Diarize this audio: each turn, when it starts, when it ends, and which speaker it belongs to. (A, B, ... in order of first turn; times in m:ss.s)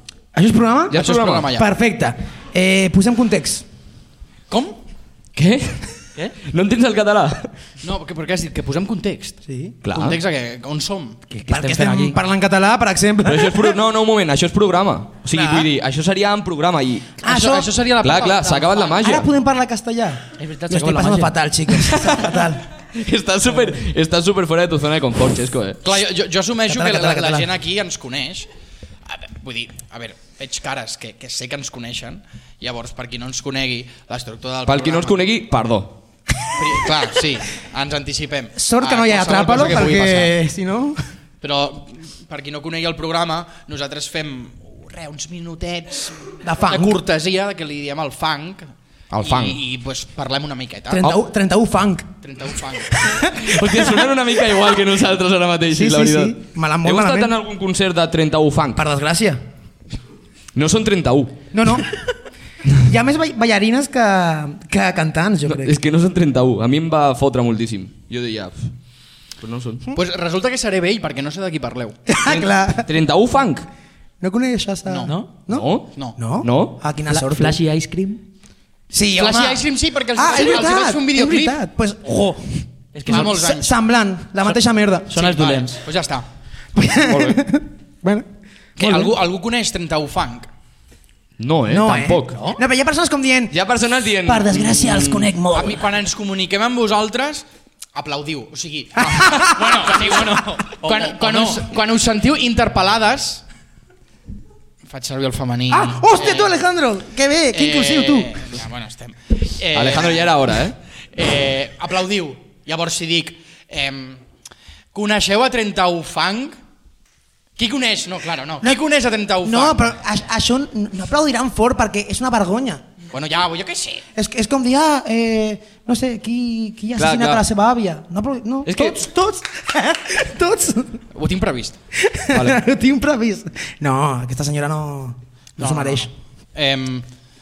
0:00.3-0:03.6 A
0:00.9-0:01.5 B
0:00.9-0:01.7 C
0:04.5-0:04.8 C
0:05.3-0:05.8 B
0:06.4-0:07.5 B
0:07.8-0:09.4 C
0:09.5-0:09.7 A
0:09.8-0:10.2 B
0:09.9-0:11.2 C
0:11.3-0:13.7 A
0:11.5-0:12.2 D
0:13.2-0:17.2 B
0:15.3-0:15.7 A
0:17.2-0:17.7 A
0:17.2-0:19.0 C
0:18.0-0:19.3 B
0:19.0-0:22.6 A
0:20.4-0:21.3 D
0:21.7-0:25.8 B
0:25.8-0:28.5 C
0:26.7-0:27.5 A
0:29.1-0:35.2 C
0:34.6-0:36.0 B
0:36.6-0:40.3 C
0:38.6-0:41.0 A
0:41.4-0:51.2 C
0:46.4-0:47.0 A
0:49.1-0:49.6 B
0:50.9-0:52.1 A
0:52.2-0:53.0 C
0:53.0-0:54.1 A
0:53.3-0:58.8 B
0:55.7-0:57.3 A
0:58.8-0:59.4 A
1:00.5-1:01.4 B
1:01.5-1:01.9 A
1:02.8-1:05.8 A
1:05.4-1:08.7 B
1:09.4-1:09.9 B
1:09.9-1:12.0 C
1:12.1-1:12.9 A
1:12.2-1:13.6 B
1:14.2-1:17.6 A
1:14.9-1:15.1 C
1:15.5-1:15.9 B
1:16.4-1:16.8 B
1:17.1-1:18.2 D
1:18.9-1:19.6 A
1:19.2-1:21.6 C
1:20.1-1:25.4 A
1:22.9-1:23.3 D
1:23.0-1:23.7 C
1:25.1-1:25.8 D
1:25.2-1:26.2 C
1:26.7-1:28.3 A
1:27.0-1:27.4 B
1:28.8-1:30.5 C
1:28.8-1:29.2 A
1:31.4-1:32.4 B
1:31.7-1:33.6 A
1:33.5-1:35.3 B
1:34.2-1:35.8 A
1:35.5-1:43.4 C
1:39.0-1:39.7 A
1:40.7-1:41.6 D
1:44.9-1:46.6 C
1:45.7-1:48.4 A
1:47.5-1:50.3 C
1:49.7-1:50.8 B
1:51.1-1:54.2 C
1:54.9-1:56.6 C
1:57.6-1:59.9 C
1:59.4-2:02.8 A
2:03.1-2:04.0 C
2:04.1-2:11.0 A
2:07.0-2:07.4 B
2:08.6-2:09.0 B
2:11.1-2:11.8 C
2:12.0-2:16.1 A
2:12.3-2:12.6 B
2:15.6-2:17.0 C